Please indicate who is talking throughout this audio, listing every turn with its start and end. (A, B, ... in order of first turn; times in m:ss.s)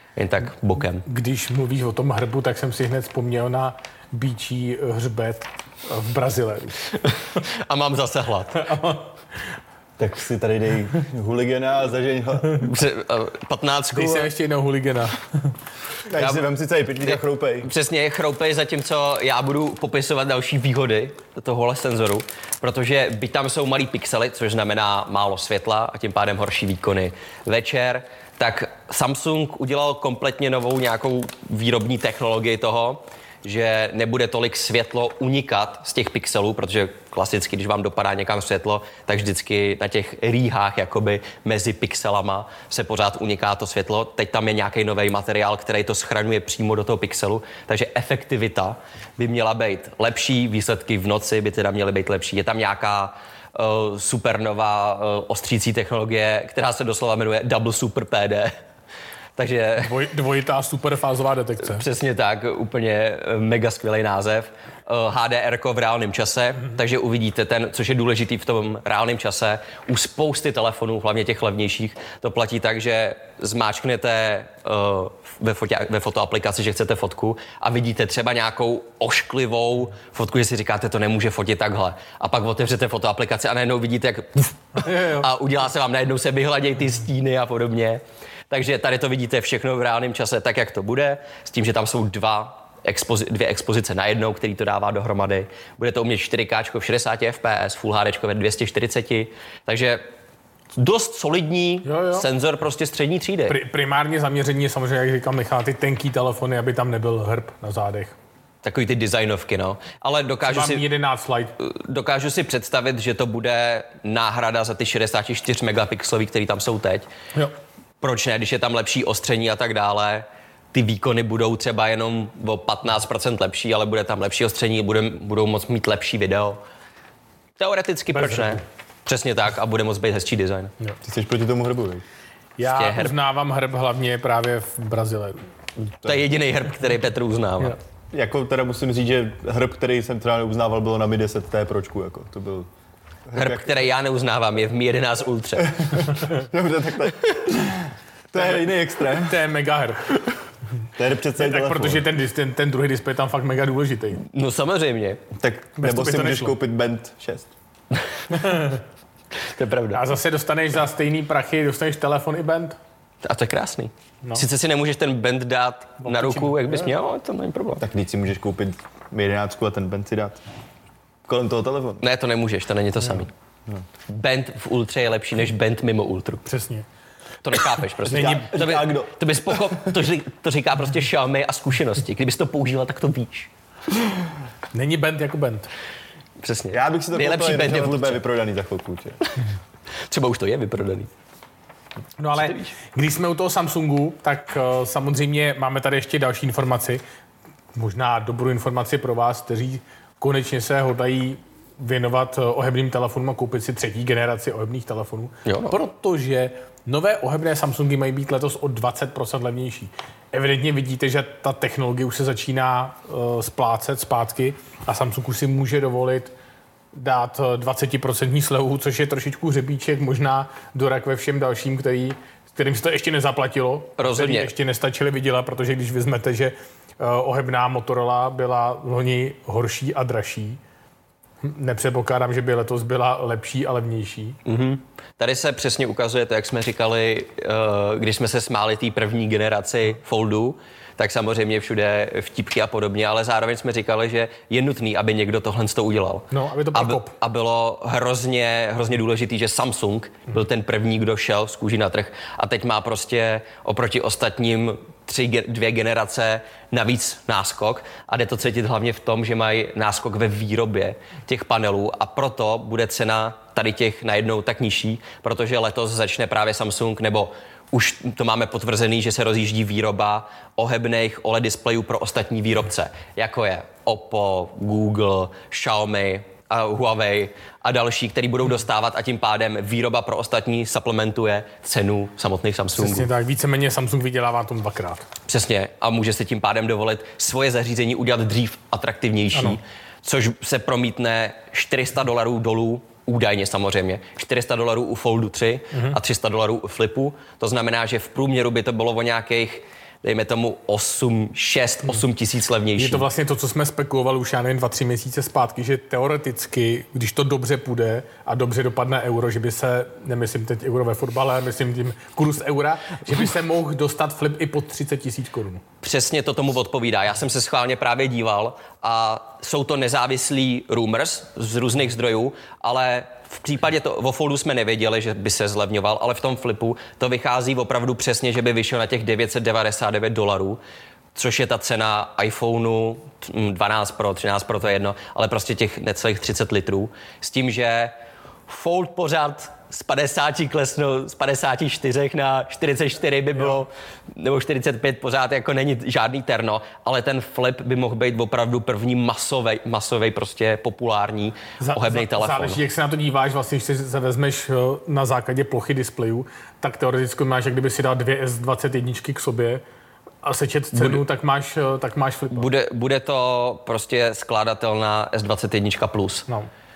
0:00.2-0:01.0 A
0:01.0-0:06.8 B
0:07.0-0:08.7 A
0:08.6-0:09.1 B
0:10.0-0:12.7 C
0:12.6-0:14.3 A
0:13.9-0:15.3 B
0:16.1-0:17.7 C
0:16.1-0:16.4 A
0:17.0-0:58.5 A
0:59.4-1:00.1 A
0:59.8-1:01.8 B
1:01.6-1:40.0 A
1:24.8-1:25.3 B
1:40.8-1:43.6 A
1:41.8-1:42.2 B
1:43.5-1:48.1 B
1:48.6-1:50.8 A
1:50.5-1:51.5 B
1:51.6-1:57.1 A
1:58.0-2:06.6 A
2:07.6-2:10.7 A
2:08.1-2:08.6 B
2:11.0-2:12.0 C
2:12.6-2:15.5 B
2:12.6-2:13.1 A
2:16.0-2:17.8 A
2:18.1-2:22.7 C
2:23.3-2:23.8 C
2:23.3-2:26.1 A
2:25.8-2:29.4 C
2:29.1-2:30.2 B
2:31.0-2:32.0 C
2:31.4-2:34.2 B
2:34.2-2:35.2 A
2:35.3-2:37.5 C
2:35.8-2:36.6 B
2:38.3-2:38.8 B
2:39.5-2:40.1 A
2:39.9-2:42.8 B
2:43.2-2:47.8 A
2:46.0-2:46.9 B
2:47.8-2:50.4 C
2:51.3-2:52.0 C
2:52.0-2:53.3 A
2:54.1-2:56.4 A
2:56.4-2:56.8 B
2:57.4-3:03.5 A
2:58.0-2:58.5 B
2:58.1-2:59.9 C
3:04.7-3:05.7 B
3:06.4-3:08.2 A
3:06.7-3:09.2 C
3:10.1-3:11.1 A
3:12.2-3:17.0 B
3:12.3-3:12.7 A
3:17.7-3:36.3 B
3:25.4-3:25.7 A
3:36.9-3:50.6 B
3:44.0-3:44.5 A
3:51.4-3:54.4 B
3:54.4-4:43.1 A
4:06.3-4:07.1 B
4:42.8-4:45.1 B
4:45.3-5:03.0 A
4:49.3-4:49.6 B
4:55.7-4:56.0 B
5:02.8-5:15.6 B
5:15.8-5:30.6 A
5:31.1-5:38.0 A
5:38.5-5:52.6 A
5:51.6-5:59.6 B
6:00.2-6:02.5 B
6:00.7-6:01.0 A
6:02.3-6:06.3 A